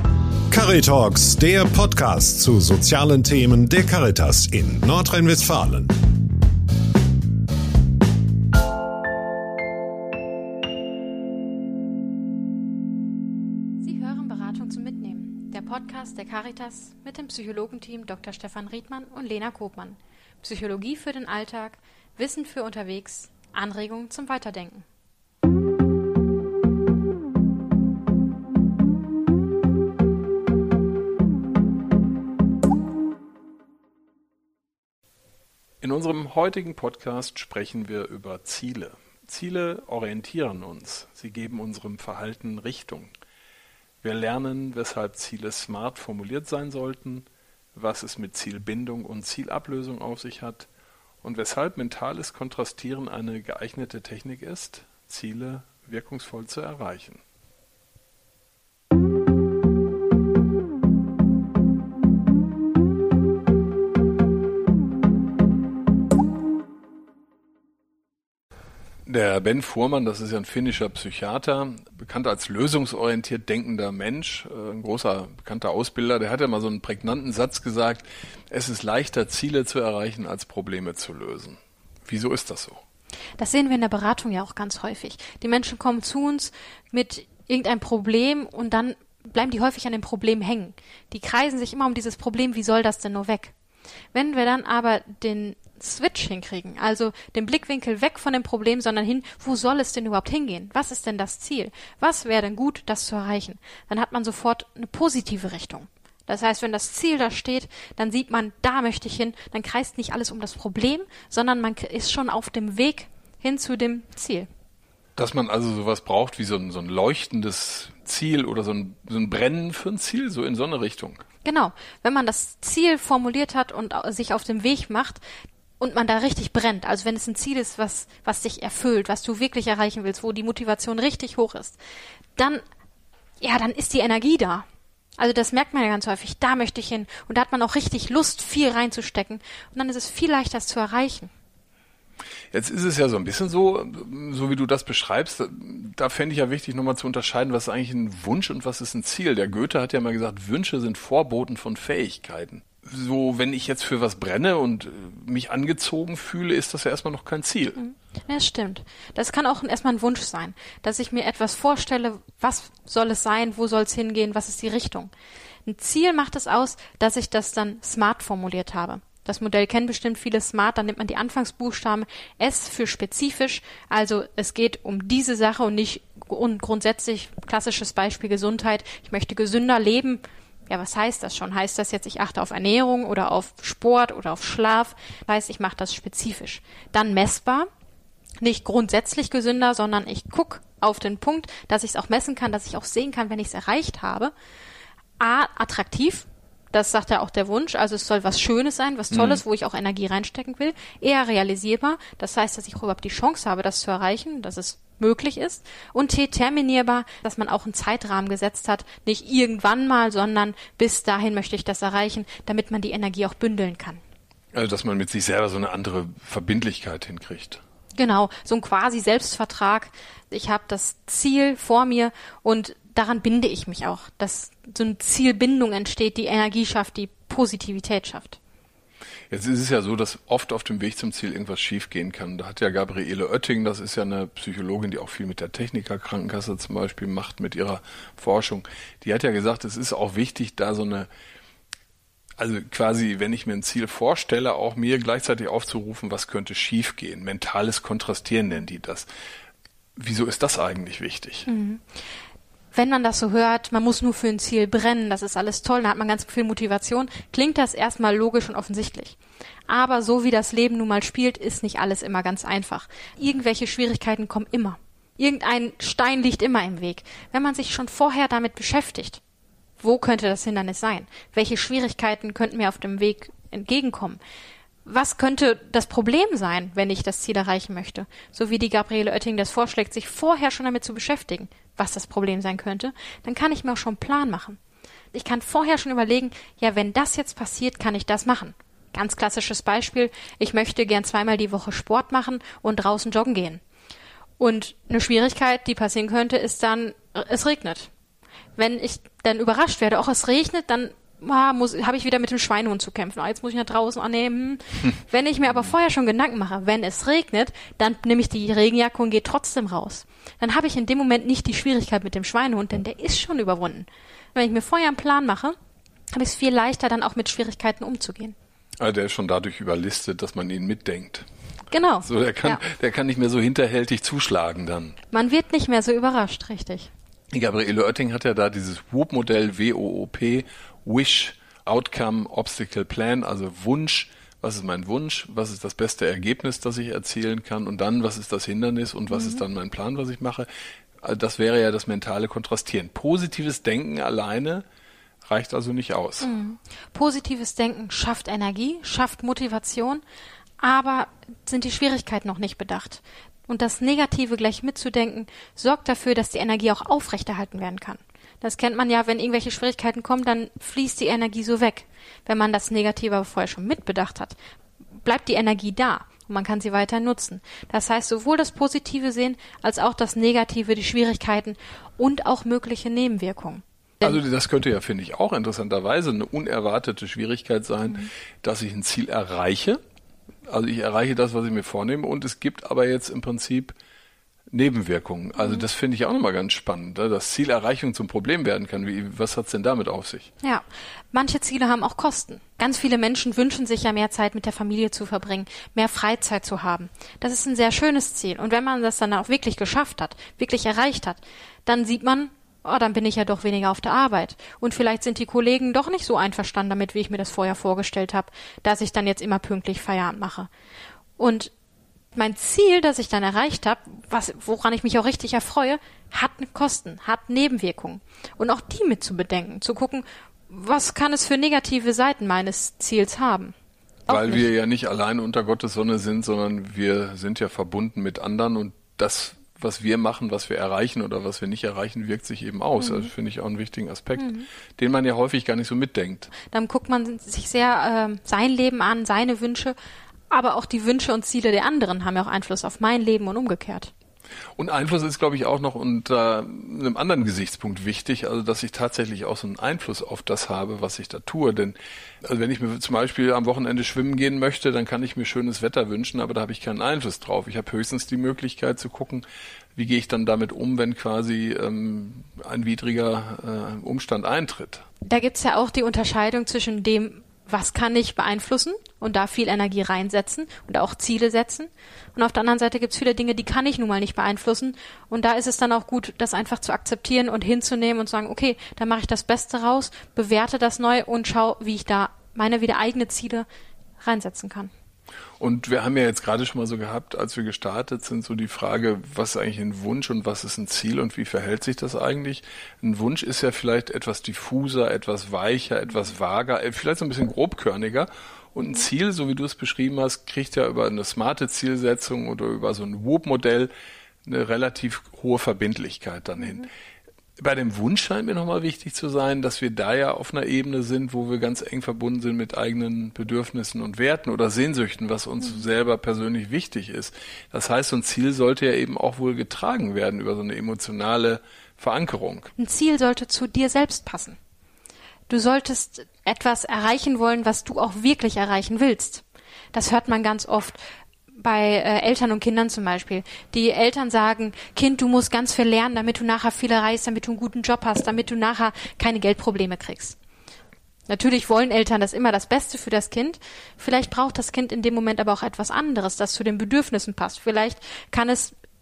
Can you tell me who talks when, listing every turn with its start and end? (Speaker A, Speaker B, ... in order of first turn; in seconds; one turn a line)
Speaker A: 0.5-5.9
Speaker B: 13.8-24.9
Speaker C: 35.8-43.1
Speaker C: 44.0-50.7
Speaker C: 51.2-57.2
Speaker C: 69.0-82.8
Speaker B: 83.4-93.5
Speaker B: 94.1-114.5
Speaker C: 115.2-121.2
Speaker B: 121.4-125.2
Speaker B: 125.8-131.8
Speaker B: 132.3-132.6
Speaker B: 133.4-134.6
Speaker B: 135.2-141.3
Speaker C: 142.5-157.8
Speaker B: 157.8-165.1
Speaker B: 165.6-187.7
Speaker B: 188.4-194.3
Speaker B: 195.2-214.0
Speaker C: 199.1-199.4
Speaker C: 214.5-217.6
Speaker B: 217.9-228.4
Speaker C: 229.3-241.1
Speaker C: 242.4-249.1
Speaker C: 250.0-251.5
Speaker B: 251.4-251.8
Speaker B: 252.7-259.2
Speaker B: 259.7-269.2
Speaker B: 269.8-274.2
Speaker B: 274.8-284.6
Speaker B: 285.1-293.6
Speaker B: 294.4-297.9
Speaker B: 298.6-315.5
Speaker B: 316.1-318.3
Speaker C: 318.8-321.3
Speaker B: 321.7-322.6
Speaker C: 322.0-324.9
Speaker B: 325.1-326.9
Speaker C: 327.3-340.5
Speaker B: 339.1-339.4
Speaker C: 341.0-344.6
Speaker C: 345.3-346.3
Speaker B: 346.2-350.0
Speaker B: 350.6-364.4
Speaker B: 365.0-374.2
Speaker C: 374.0-379.8
Speaker C: 380.5-383.7
Speaker C: 384.5-390.3
Speaker B: 385.4-385.6
Speaker B: 390.4-410.5
Speaker B: 411.2-411.5
Speaker B: 412.1-423.5
Speaker B: 424.1-424.5
Speaker C: 424.1-436.3
Speaker B: 432.8-433.1
Speaker B: 434.1-434.5
Speaker B: 436.4-439.7
Speaker B: 440.3-443.9
Speaker C: 444.6-464.8
Speaker B: 465.0-483.5
Speaker B: 484.0-484.7
Speaker C: 485.4-503.7
Speaker C: 504.2-506.7
Speaker C: 507.4-522.5
Speaker B: 522.6-524.4
Speaker B: 525.3-530.8
Speaker B: 531.3-540.2
Speaker B: 541.1-548.5